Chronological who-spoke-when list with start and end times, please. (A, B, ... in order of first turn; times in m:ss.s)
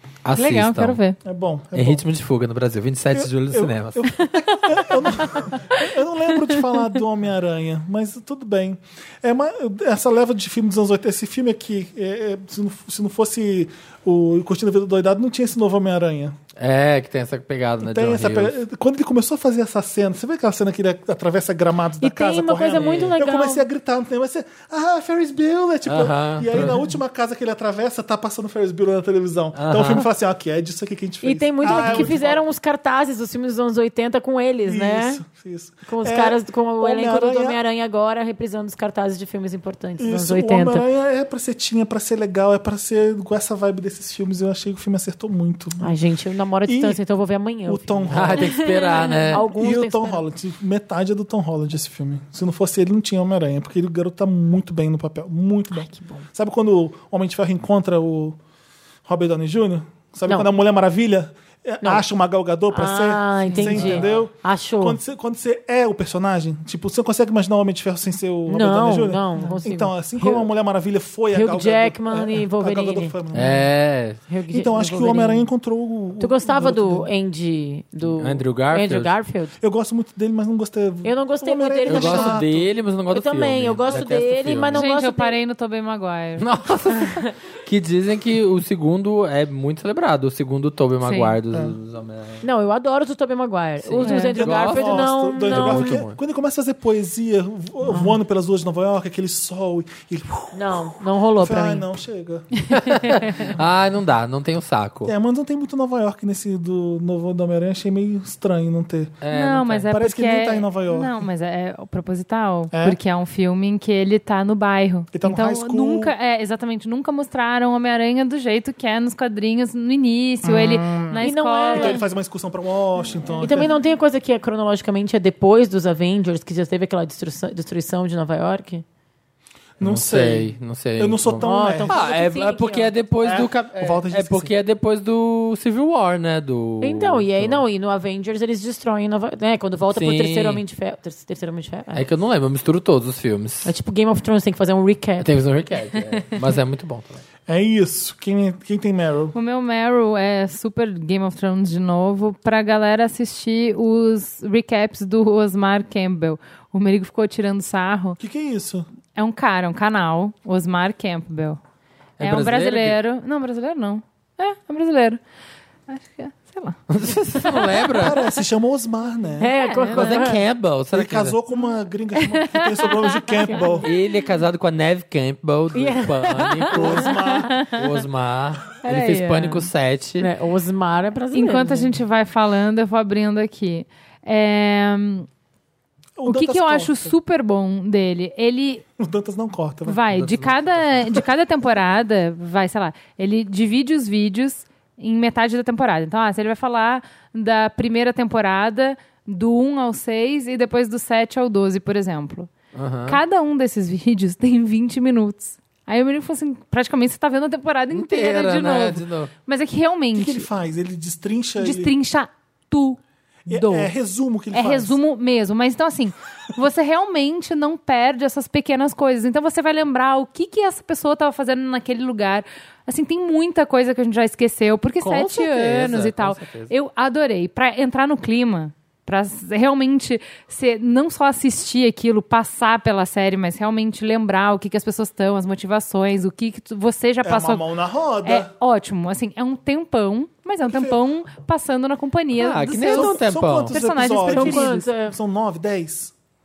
0:00.2-0:01.0 A
0:00.4-0:01.2 B
0:01.2-0:02.0 C
0:01.7-0:04.0 A
0:03.1-0:16.4 C
0:16.6-0:18.6 A
0:17.8-0:32.4 C
0:22.0-0:23.7 D
0:22.7-0:23.2 A
0:25.8-0:26.8 A
0:29.5-0:30.1 A
0:31.2-0:35.2 D
0:31.6-0:32.1 A
0:34.6-0:37.6 C
0:35.8-0:40.8 D
0:40.0-0:45.9 C
0:45.8-0:50.2 D
0:46.6-0:47.0 C
0:47.7-0:58.4 C
0:48.1-0:49.5 A
0:55.8-0:56.2 D
0:59.0-1:13.7 C
1:02.7-1:05.0 D
1:03.8-1:04.2 A
1:08.5-1:10.5 D
1:11.3-1:13.1 D
1:13.3-1:14.2 A
1:14.3-1:15.5 D
1:14.5-1:17.1 C
1:16.2-1:19.5 D
1:18.0-1:19.1 A
1:19.6-1:22.7 C
1:21.0-1:22.4 D
1:21.8-1:24.8 A
1:23.1-1:25.4 D
1:24.7-1:26.4 B
1:26.4-1:32.4 A
1:31.0-1:31.3 B
1:32.4-1:36.0 D
1:33.8-1:36.2 A
1:34.0-1:34.4 B
1:34.4-1:43.6 C
1:37.8-1:38.1 D
1:40.5-1:41.8 D
1:42.9-1:45.1 A
1:45.0-1:49.2 C
1:49.2-1:49.9 A
1:49.3-2:02.0 B
1:49.8-1:51.2 C
1:52.7-1:53.0 C
1:55.1-1:56.1 C
2:00.4-2:03.7 C
2:01.2-2:02.0 D
2:03.4-2:08.8 D
2:09.8-2:12.0 C
2:09.8-2:17.6 A
2:11.4-2:12.9 D
2:13.2-2:14.5 C
2:16.8-2:22.0 D
2:19.9-2:20.6 A
2:21.9-2:23.7 A
2:23.6-2:25.3 D
2:25.2-2:27.2 A
2:27.5-2:29.3 C
2:29.3-2:38.2 B
2:38.2-2:38.9 C
2:39.1-2:41.6 B
2:42.2-2:43.0 A
2:42.2-2:45.2 B
2:45.9-2:46.8 B
2:46.9-2:48.2 A
2:47.9-2:49.5 C
2:49.4-2:50.4 D
2:49.6-2:50.2 B
2:49.9-2:51.3 A
2:50.9-2:53.9 C
2:52.2-2:53.2 B
2:53.3-2:53.9 D
2:53.8-3:00.3 A
2:55.7-2:57.6 D
2:56.7-2:57.5 C
2:58.8-2:59.7 D
3:00.2-3:01.9 D
3:01.3-3:05.3 B
3:06.2-3:07.1 C
3:06.2-3:08.8 B
3:09.0-3:10.0 C
3:09.8-3:22.5 B
3:10.1-3:11.2 A
3:22.7-3:23.2 A
3:23.0-3:30.5 B
3:27.9-3:29.3 A
3:30.1-3:31.9 C
3:31.6-3:33.9 B
3:33.5-3:35.0 C
3:34.5-3:57.6 B
3:45.0-3:46.7 A
3:57.2-3:58.5 C
3:58.2-4:04.9 B
4:00.6-4:01.0 C
4:02.4-4:03.7 A
4:02.8-4:06.1 C
4:04.3-4:05.2 D